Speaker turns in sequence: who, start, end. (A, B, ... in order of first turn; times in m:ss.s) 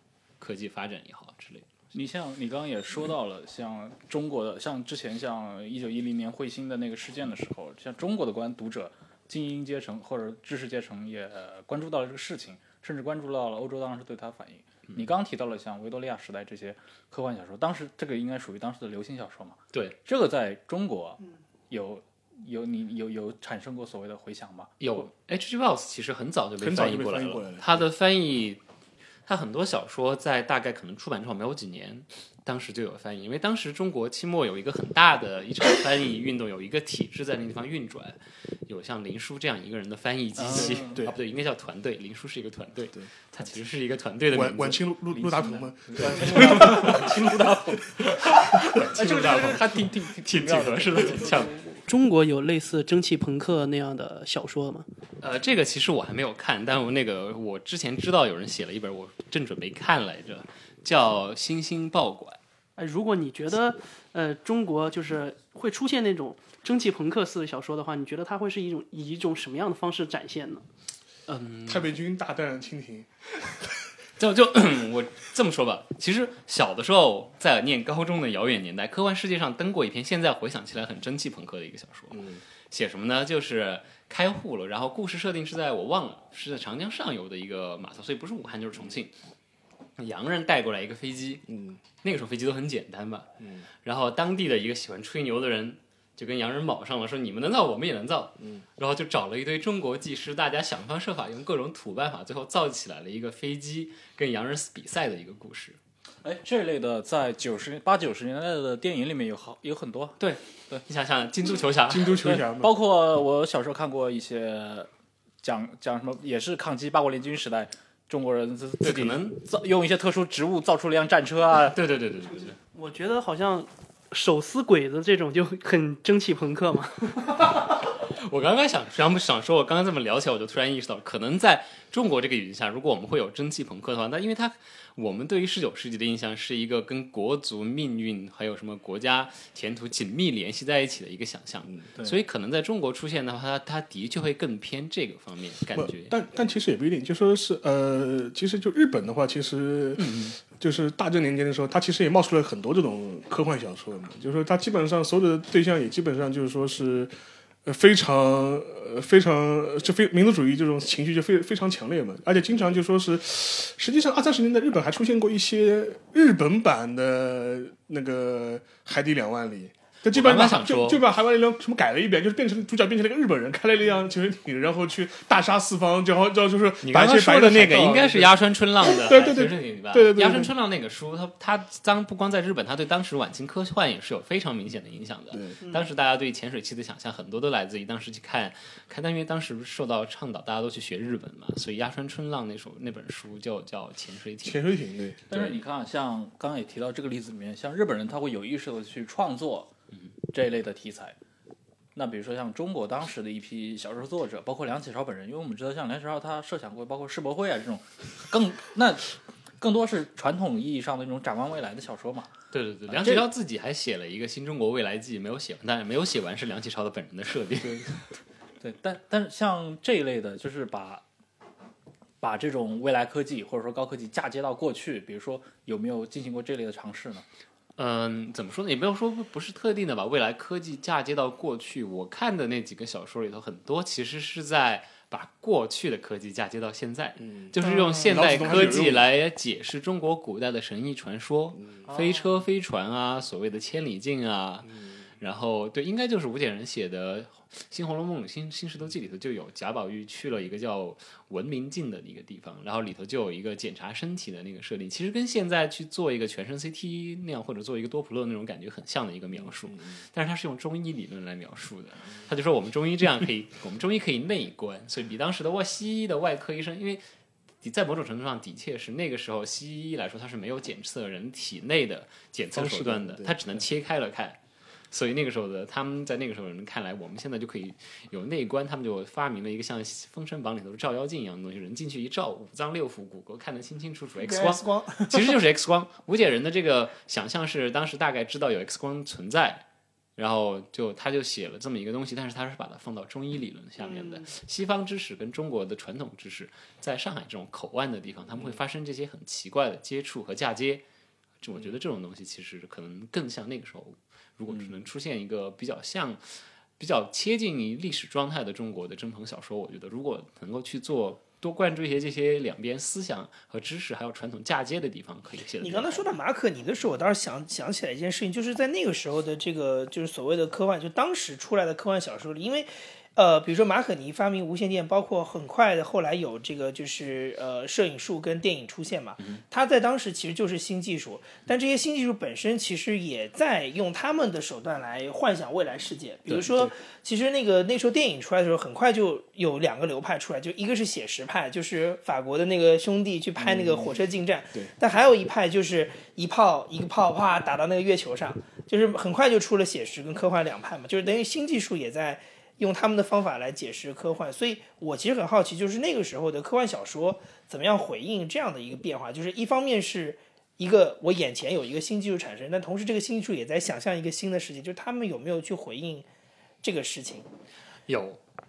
0:00.4-0:01.8 A
0:01.9-0:21.2 B
0:21.7-0:25.1 B
0:24.8-0:28.6 A
0:26.6-0:27.8 C
0:29.3-0:44.9 A
0:40.4-0:41.0 B
0:40.6-0:41.2 C
0:44.3-0:47.1 C
0:45.2-0:51.6 B
0:46.1-0:47.1 A
0:48.6-0:51.6 A
0:51.8-0:54.9 D
0:55.2-1:02.4 A
1:02.8-1:10.6 D
1:11.3-1:11.9 A
1:11.6-1:13.7 C
1:14.2-1:29.1 A
1:22.1-1:22.4 C
1:30.0-1:31.5 A
1:31.5-1:31.8 C
1:32.0-1:33.3 A
1:33.4-1:33.6 C
1:33.8-1:45.8 A
1:46.2-1:50.2 B
1:50.2-1:52.4 A
1:51.9-1:52.7 C
1:52.2-1:54.9 B
1:55.4-2:01.8 B
1:58.8-1:59.4 A
2:01.7-2:02.6 A
2:02.7-2:07.6 D
2:08.0-2:26.2 A
2:25.7-2:37.1 C
2:30.0-2:30.4 A
2:37.6-3:00.5 C
2:50.1-2:51.0 A
2:56.8-3:14.7 A
3:14.4-3:15.5 C
3:15.3-3:19.7 B
3:20.3-3:21.2 B
3:22.0-3:32.3 B
3:32.5-3:38.0 A
3:32.9-3:33.3 B
3:38.6-3:41.0 B
3:42.2-3:47.3 B
3:47.8-4:27.0 A
3:58.0-3:59.1 C
4:27.6-4:34.4 A
4:32.5-4:33.6 C
4:34.9-4:49.6 A
4:44.2-4:45.4 E
4:50.2-5:00.8 A
4:53.8-4:54.2 E
5:01.4-5:06.2 A
5:06.8-5:16.1 A
5:15.6-6:06.1 E
5:36.3-5:36.7 A
5:43.5-5:43.9 C
6:06.6-6:07.3 E
6:07.9-6:08.2 A